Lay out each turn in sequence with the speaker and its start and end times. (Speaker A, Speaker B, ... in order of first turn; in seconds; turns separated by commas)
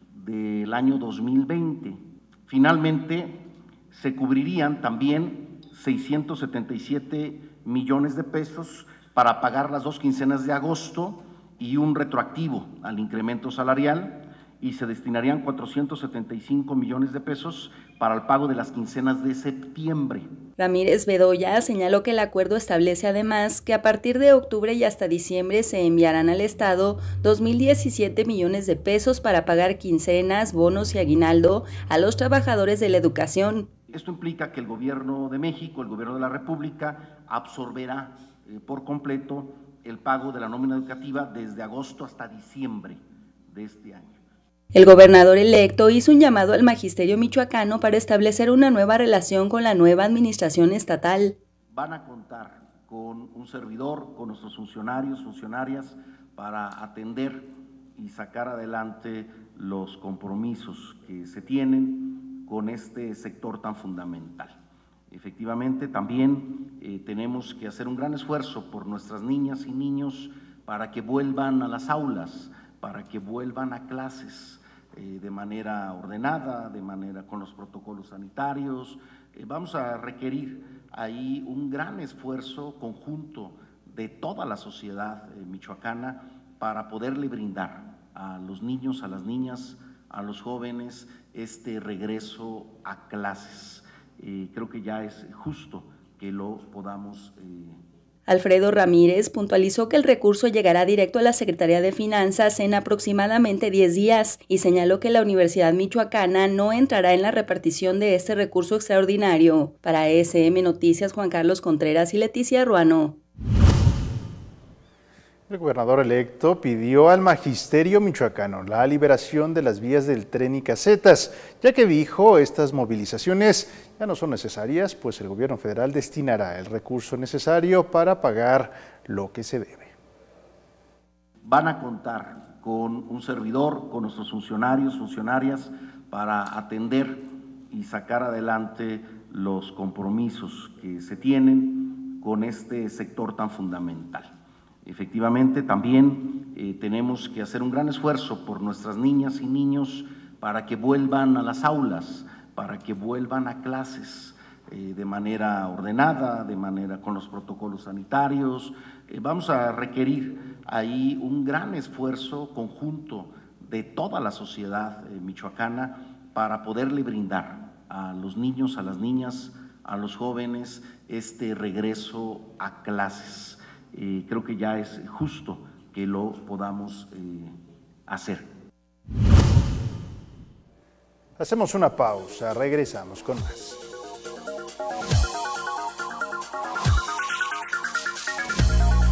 Speaker A: 0.1-20.3, Speaker B: 20.6-33.7, Speaker A: 33.9-44.2, Speaker B: 44.7-51.4, Speaker A: 51.7-64.5, Speaker A: 65.1-97.8, Speaker B: 98.3-113.2, Speaker C: 115.5-129.9, Speaker A: 131.4-144.3, Speaker A: 144.8-177.6, Speaker A: 178.1-178.5, Speaker C: 181.4-183.8